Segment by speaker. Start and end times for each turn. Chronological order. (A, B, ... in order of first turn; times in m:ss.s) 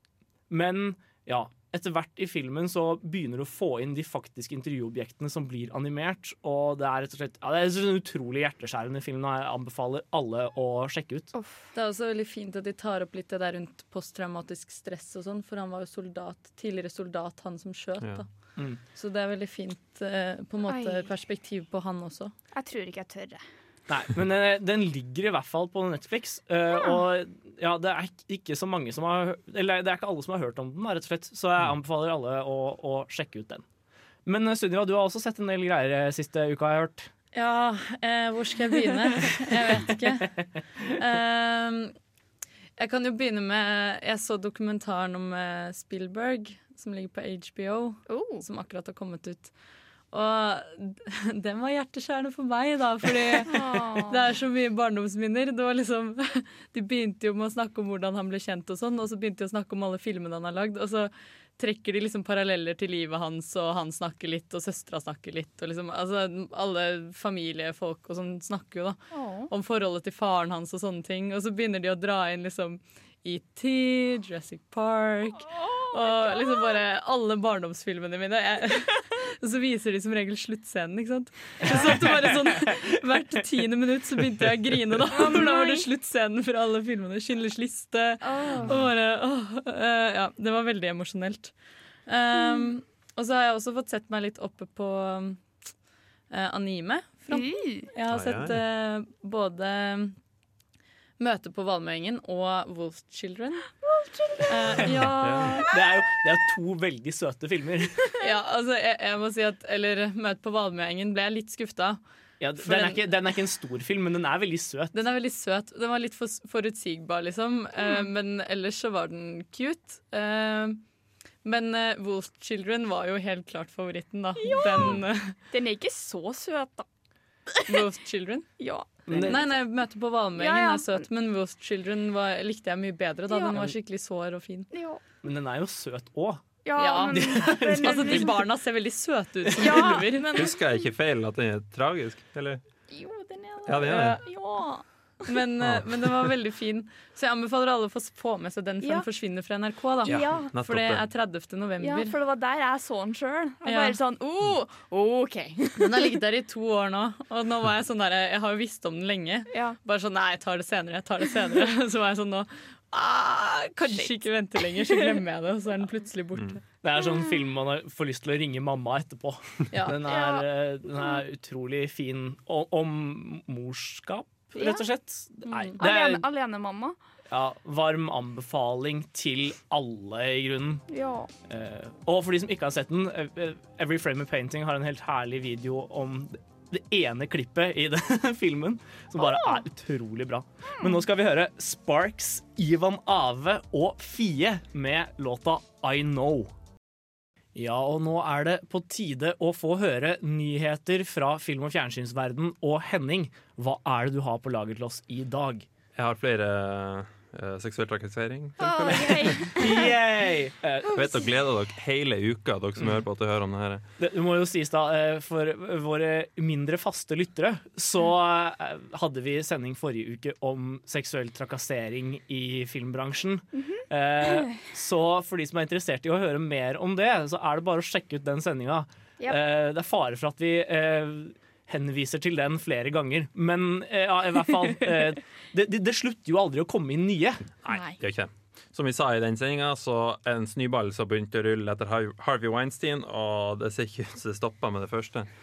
0:00.5-0:11.3 A
0:11.3-0:11.7 B
0:11.7-0:22.3 C
0:20.7-0:21.1 B
0:22.5-0:23.4 B
0:23.9-0:33.6 A
0:26.8-0:27.0 B
0:34.3-0:37.1 A
0:37.3-0:41.9 C
0:42.8-0:49.6 C
0:48.1-0:48.4 B
0:50.1-1:31.6 C
0:53.5-0:54.2 B
1:09.1-1:09.5 B
1:15.5-1:16.7 B
1:21.6-1:22.8 A
1:25.2-1:25.9 B
1:28.2-1:28.7 B
1:32.1-1:35.7 C
1:32.3-1:32.7 B
1:36.3-1:40.2 C
1:37.3-1:37.9 B
1:38.1-1:38.6 D
1:41.2-1:43.8 C
1:43.8-1:45.6 B
1:44.5-1:45.6 C
1:45.1-1:45.6 D
1:45.7-1:48.0 A
1:48.2-1:52.0 C
1:52.4-1:54.9 A
1:52.6-1:53.0 C
1:54.9-2:00.8 C
1:57.8-1:58.1 B
2:01.4-2:05.4 C
2:04.4-2:05.0 B
2:05.5-2:06.9 B
2:07.7-2:14.7 C
2:08.6-2:09.4 B
2:09.1-2:09.4 A
2:10.4-2:11.1 B
2:13.3-2:13.6 B
2:14.7-2:15.0 B
2:15.2-2:16.4 A
2:16.6-2:18.4 B
2:16.8-2:20.4 C
2:17.1-2:18.4 A
2:19.4-2:20.0 A
2:19.6-2:20.8 B
2:20.3-2:22.6 D
2:22.9-2:24.9 B
2:23.7-2:24.2 D
2:23.8-2:24.5 C
2:25.3-2:32.2 C
2:25.6-2:26.3 D
2:30.0-2:31.0 D
2:30.1-2:30.5 B
2:31.8-2:36.1 B
2:33.6-2:34.0 C
2:35.8-2:46.6 C
2:39.5-2:39.8 B
2:43.9-2:45.2 B
2:46.8-2:56.2 A
2:47.0-2:47.4 B
2:49.7-2:50.0 C
2:50.1-2:51.2 B
2:54.6-2:54.9 B
2:55.5-2:55.8 C
2:55.8-2:57.0 B
2:57.3-3:00.8 A
3:00.9-3:01.3 B
3:01.5-3:16.5 A
3:09.2-3:09.6 B
3:10.7-3:11.0 B
3:17.6-3:25.7 A
3:26.0-3:29.5 D
3:28.6-3:29.9 B
3:29.5-3:31.0 A
3:30.9-3:33.8 D
3:34.0-3:57.4 A
3:43.6-3:44.4 B
3:57.6-4:05.3 D
3:57.7-3:58.0 B